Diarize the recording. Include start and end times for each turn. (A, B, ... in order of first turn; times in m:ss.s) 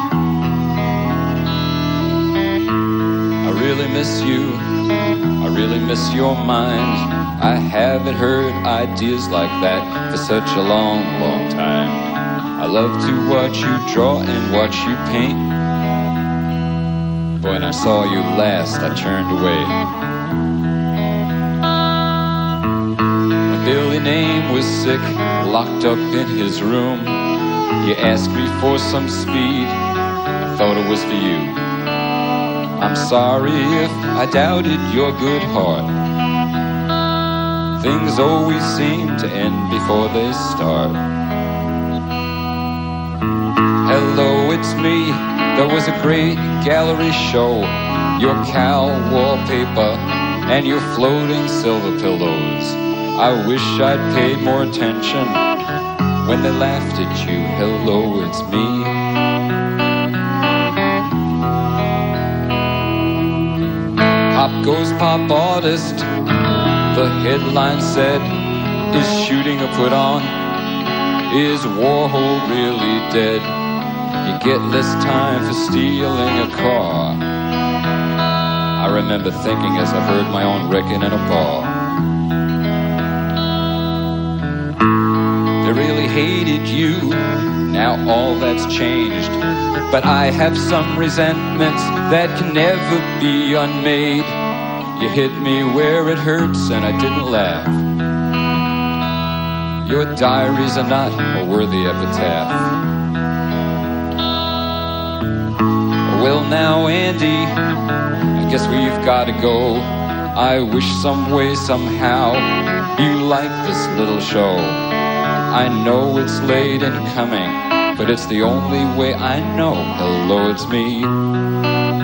0:03.4-0:04.8 A
0:05.4-0:12.0 A
0:12.6-0:15.5 A
0:17.4-0:19.8 A
0:23.4-0:27.3 A
0:27.8-0:29.8 A
0:30.4-0:31.6 A
0:32.8-0:35.9 A
0:37.7-0:41.0 A
0:43.8-0:55.4 A
0:56.2-0:59.0 A
1:04.3-1:06.1 A
1:06.9-1:10.4 A
1:11.3-1:13.5 A
1:14.2-1:17.2 A
1:18.8-1:21.8 A
1:25.6-1:34.4 A
1:34.9-1:37.8 A
1:39.8-1:42.7 A
1:46.1-1:47.6 A
1:48.3-1:54.8 A
1:55.5-2:01.1 A